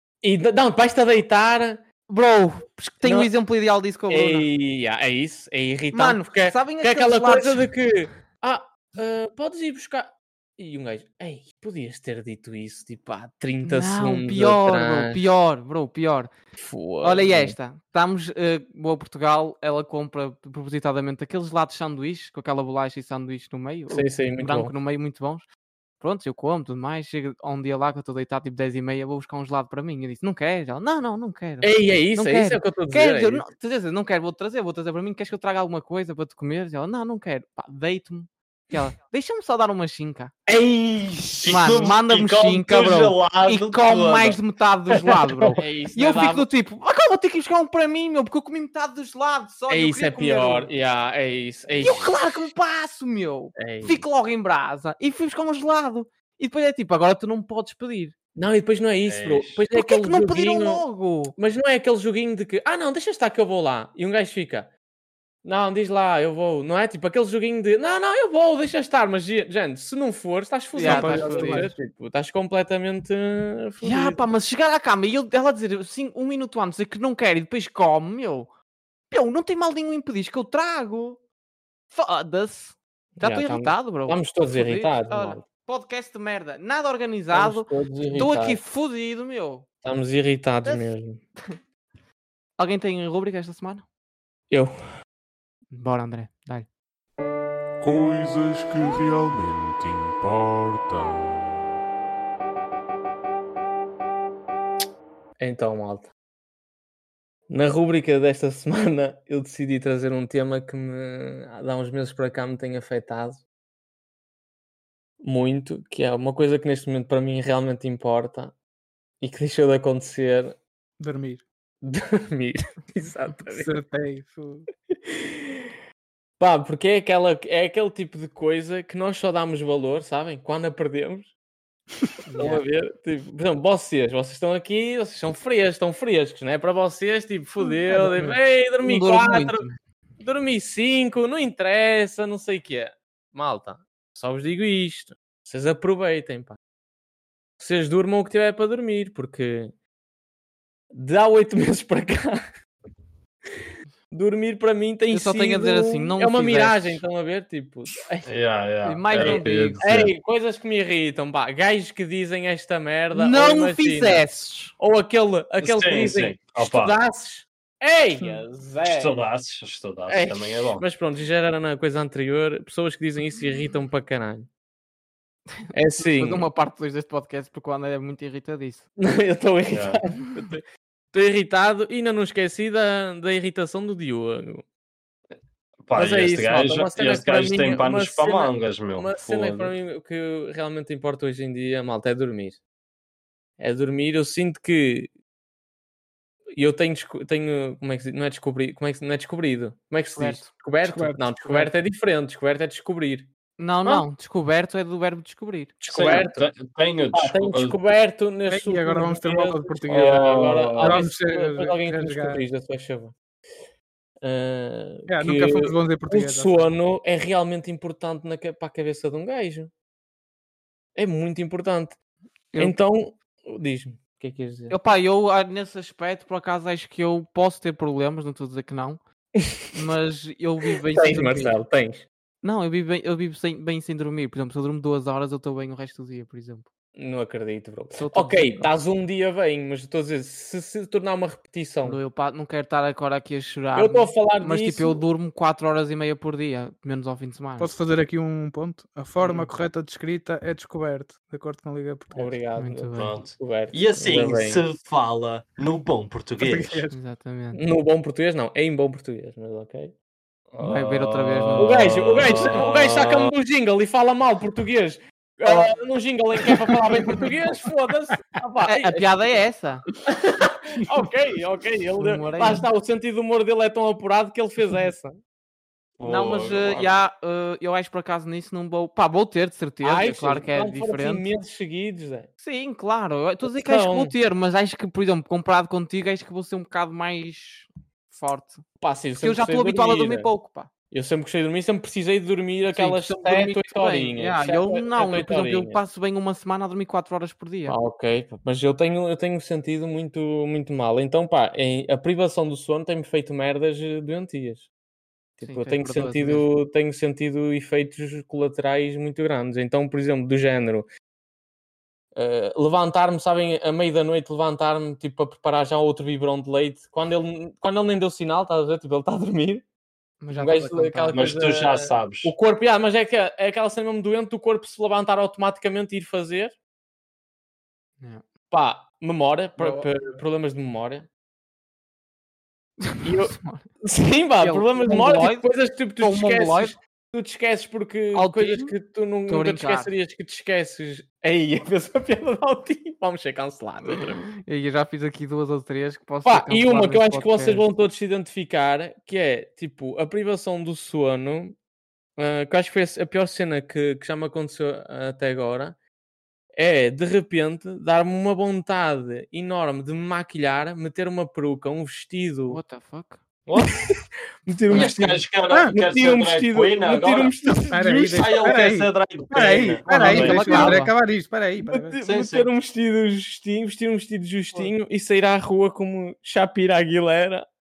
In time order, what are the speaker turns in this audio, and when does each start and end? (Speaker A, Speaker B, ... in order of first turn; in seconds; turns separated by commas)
Speaker A: 0.2-1.8, Speaker B: 2.1-4.5, Speaker A: 3.0-3.3, Speaker A: 4.1-15.2, Speaker B: 5.9-7.7, Speaker B: 13.6-16.3, Speaker A: 16.5-17.6, Speaker B: 17.0-25.4, Speaker A: 23.9-24.7, Speaker B: 26.0-40.3, Speaker A: 31.6-33.5, Speaker A: 40.5-41.5, Speaker C: 41.4-44.4, Speaker B: 41.5-50.7, Speaker A: 45.5-46.5, Speaker A: 49.7-52.5, Speaker B: 51.8-58.1, Speaker A: 53.5-53.9, Speaker A: 58.3-60.8, Speaker C: 59.1-59.6, Speaker B: 59.7-61.3, Speaker A: 61.4-64.7, Speaker A: 65.4-74.2, Speaker B: 70.7-71.7, Speaker C: 70.9-71.5, Speaker D: 70.9-71.6, Speaker B: 73.8-78.5, Speaker B: 79.1-81.2, Speaker B: 81.9-89.7, Speaker A: 83.2-85.4, Speaker A: 87.3-88.6, Speaker A: 89.8-91.2, Speaker B: 90.6-90.9, Speaker B: 92.6-93.8, Speaker B: 95.7-96.7, Speaker E: 97.8-101.6, Speaker A: 105.4-106.1, Speaker A: 107.5-113.4, Speaker A: 115.2-118.5, Speaker A: 119.2-120.5, Speaker D: 121.0-121.4, Speaker A: 121.8-123.7, Speaker D: 123.5-124.7, Speaker A: 124.9-125.7, Speaker A: 126.4-131.3, Speaker B: 132.2-132.6, Speaker A: 132.4-139.6, Speaker B: 137.6-139.8, Speaker A: 140.2-146.6, Speaker A: 147.6-149.7, Speaker A: 150.9-152.4, Speaker A: 154.1-158.2, Speaker B: 155.1-157.0, Speaker C: 158.2-160.1, Speaker B: 158.8-159.8, Speaker A: 159.1-164.2, Speaker B: 163.1-164.7, Speaker A: 164.8-169.1, Speaker C: 165.6-166.9, Speaker C: 168.8-170.8, Speaker A: 170.1-174.5, Speaker B: 175.6-178.9, Speaker A: 175.7-176.4, Speaker A: 179.0-184.6, Speaker C: 179.7-180.0, Speaker C: 185.8-189.7, Speaker A: 185.9-192.6, Speaker A: 193.6-195.1, Speaker A: 196.6-203.3, Speaker B: 200.1-200.5, Speaker D: 200.8-201.7, Speaker B: 203.6-205.8, Speaker A: 205.8-206.3, Speaker C: 205.9-207.8, Speaker D: 206.0-206.3, Speaker A: 207.1-213.1, Speaker D: 208.5-210.2, Speaker C: 209.9-211.0, Speaker D: 210.8-212.4, Speaker A: 214.2-219.7, Speaker D: 215.1-216.7, Speaker A: 220.9-222.0, Speaker B: 222.5-222.8, Speaker A: 222.6-224.7, Speaker B: 224.7-229.0, Speaker B: 229.7-231.6, Speaker A: 230.9-232.1, Speaker B: 232.4-236.7, Speaker A: 236.9-242.0, Speaker B: 237.9-238.7, Speaker B: 241.8-247.7, Speaker A: 243.8-245.0, Speaker D: 247.6-252.3, Speaker B: 249.2-249.7, Speaker A: 252.1-254.6, Speaker B: 252.6-253.2, Speaker C: 252.9-256.8, Speaker D: 256.4-256.9, Speaker B: 256.9-257.6, Speaker A: 257.5-259.9, Speaker C: 260.5-263.3, Speaker B: 260.6-262.2, Speaker A: 261.6-269.1, Speaker B: 268.6-269.8, Speaker A: 270.1-275.1, Speaker B: 272.0-272.7, Speaker C: 276.0-276.9, Speaker B: 276.0-281.2, Speaker A: 279.8-282.3, Speaker B: 282.4-288.6, Speaker A: 283.5-284.1, Speaker A: 288.8-290.3, Speaker B: 289.2-290.7, Speaker A: 290.9-295.8, Speaker B: 292.7-297.8, Speaker A: 297.7-304.7, Speaker A: 305.4-310.9, Speaker B: 305.4-306.4, Speaker A: 312.1-319.6, Speaker B: 320.2-321.3, Speaker A: 320.3-326.6, Speaker C: 321.1-322.3, Speaker B: 328.0-328.2, Speaker A: 328.5-331.1, Speaker B: 329.6-329.9, Speaker B: 332.8-333.6, Speaker A: 333.0-344.2, Speaker B: 334.4-335.5, Speaker B: 336.0-336.8, Speaker B: 338.1-338.7, Speaker B: 339.3-339.9, Speaker B: 343.8-347.6, Speaker A: 346.2-351.6, Speaker A: 352.2-355.8, Speaker A: 356.6-362.6, Speaker B: 362.5-363.2, Speaker C: 363.5-363.9, Speaker A: 363.6-368.2, Speaker C: 364.7-370.9, Speaker D: 367.7-372.0, Speaker A: 369.9-370.9, Speaker A: 371.6-377.4, Speaker C: 372.0-372.5